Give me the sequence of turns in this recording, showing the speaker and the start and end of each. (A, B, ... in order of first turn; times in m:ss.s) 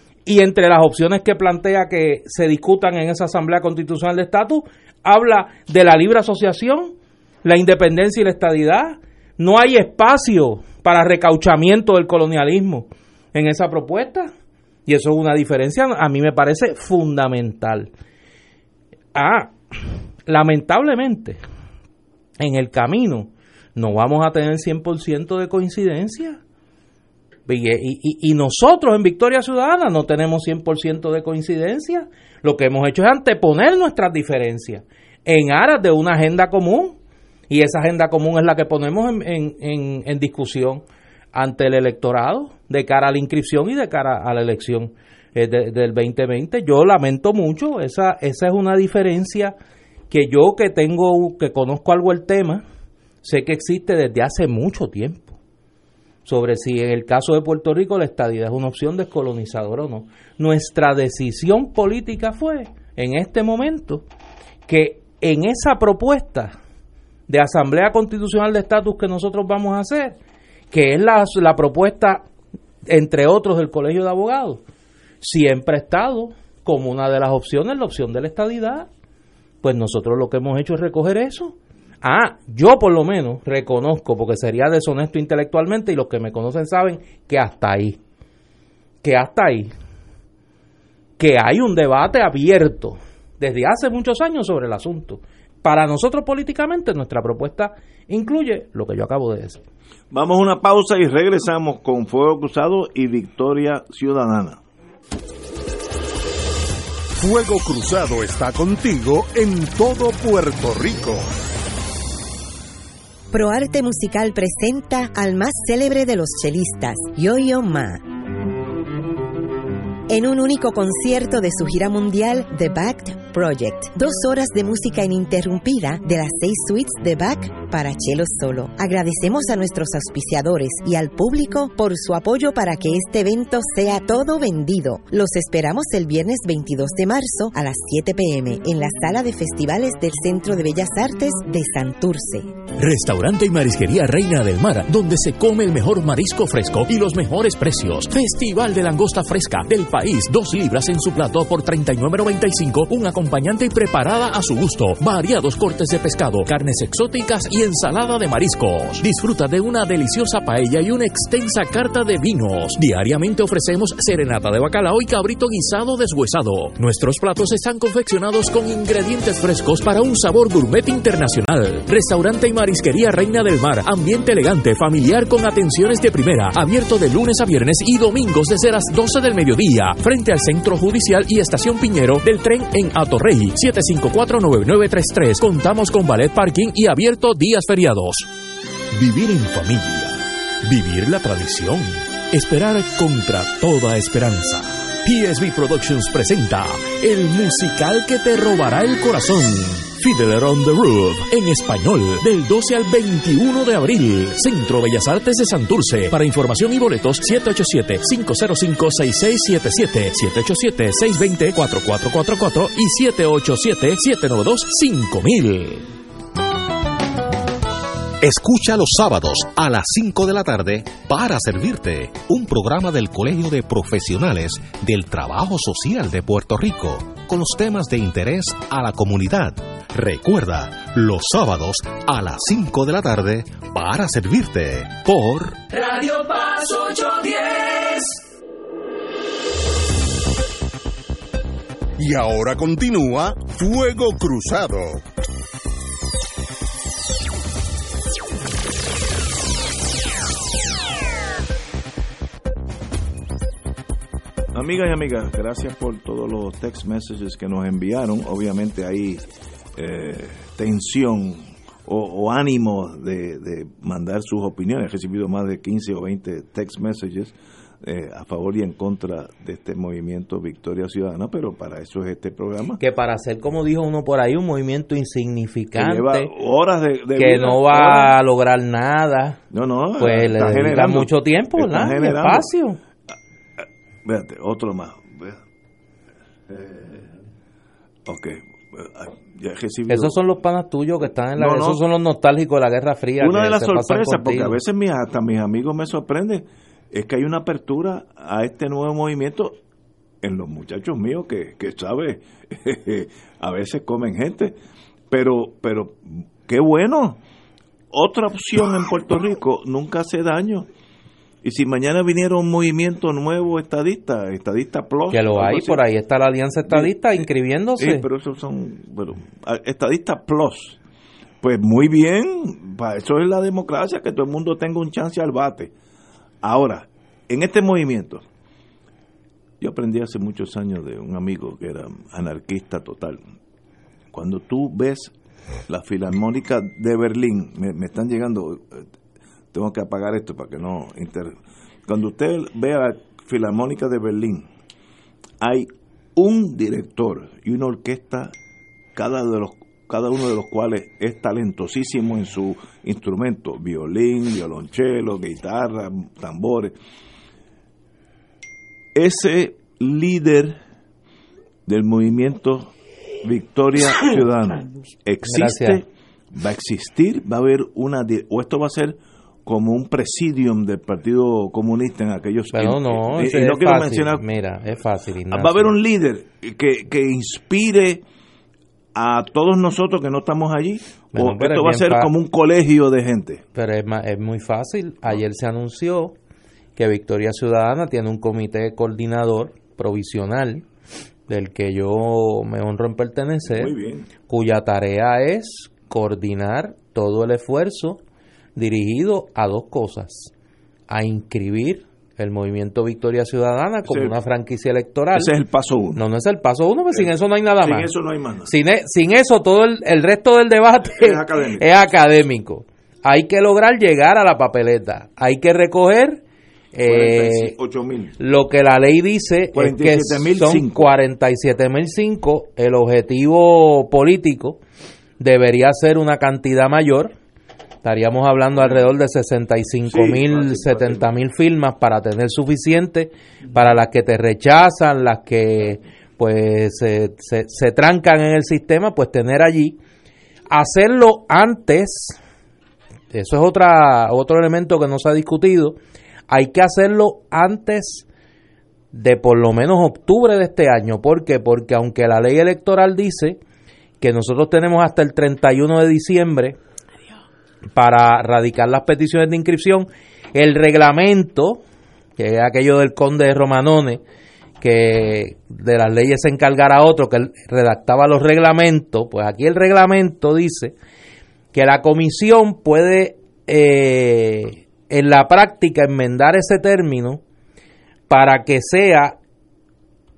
0:00.2-0:06.9 A
0:07.4-0:14.3 A
0:14.8-0:17.9 A
0:19.1-0:19.5 A
0:20.2-0:21.4 A
0:22.4-0:26.4 A
0:27.5-0:37.0 A
0:37.5-0:49.5 A
0:50.1-0:52.6 A
0:53.2-0:55.3 A
0:56.2-1:04.0 A
1:04.7-1:06.5 A
1:07.3-1:10.2 A
1:10.7-1:12.2 A
1:12.8-1:14.6 A
1:15.2-1:18.9 A
1:19.6-1:28.0 A
1:29.0-1:29.7 A
1:31.2-1:39.6 A
1:40.1-1:44.6 B
1:47.2-1:51.3 C
1:53.3-1:58.0 D
2:00.1-2:22.5 D
2:22.8-3:08.3 E
3:08.9-3:35.9 E
3:38.2-3:55.6 F
3:55.7-3:58.2 G
4:02.0-4:05.0 C
4:14.5-4:19.2 B
4:19.8-4:32.8 B
4:32.8-4:36.3 A
4:35.7-4:38.2 B
4:37.2-4:39.4 A
4:39.5-4:42.5 B
4:40.0-4:42.8 A
4:43.6-4:45.4 B
4:46.5-4:47.1 B
4:48.0-4:50.2 B
4:49.9-4:54.6 A
4:51.4-4:51.8 B
4:53.2-4:59.6 B
5:00.2-5:04.6 B
5:05.1-5:07.2 B
5:07.9-5:10.7 B
5:11.4-5:15.8 B
5:15.1-5:18.0 A
5:16.6-5:16.9 B
5:17.8-5:20.8 B
5:21.4-5:25.7 B
5:26.4-5:28.2 B
5:29.6-5:33.2 B
5:34.1-5:35.1 B
5:35.7-5:38.9 B
5:39.5-5:44.5 B
5:45.4-5:48.3 B
5:48.9-5:56.7 B
5:58.9-6:00.6 B
6:01.6-6:14.2 B
6:05.2-6:05.8 A
6:12.5-6:15.7 A
6:15.3-6:18.0 B
6:18.9-6:23.4 B
6:21.1-6:22.1 A
6:23.5-6:26.1 A
6:26.8-6:30.6 A
6:31.3-6:33.7 A
6:33.5-6:34.1 B
6:34.3-6:38.0 A
6:38.6-6:40.3 A
6:40.9-6:45.3 A
6:43.8-6:44.2 B
6:45.1-6:46.0 B
6:46.0-6:47.9 A
6:46.9-6:48.5 B
6:48.4-6:56.2 A
6:50.9-6:51.7 B
6:56.7-6:57.5 A
6:56.8-6:58.2 B
6:58.2-7:04.6 A
6:59.5-7:00.9 B
7:05.2-7:07.1 A
7:07.8-7:19.8 A
7:08.5-7:08.8 B
7:09.9-7:11.1 B
7:20.5-7:22.2 A
7:23.1-7:25.8 A
7:26.3-7:28.0 A
7:28.9-7:33.4 A
7:34.0-7:36.6 A
7:37.7-7:41.6 A
7:42.2-7:44.0 A
7:44.6-7:50.7 A
7:51.5-7:57.2 A
7:58.1-7:59.1 A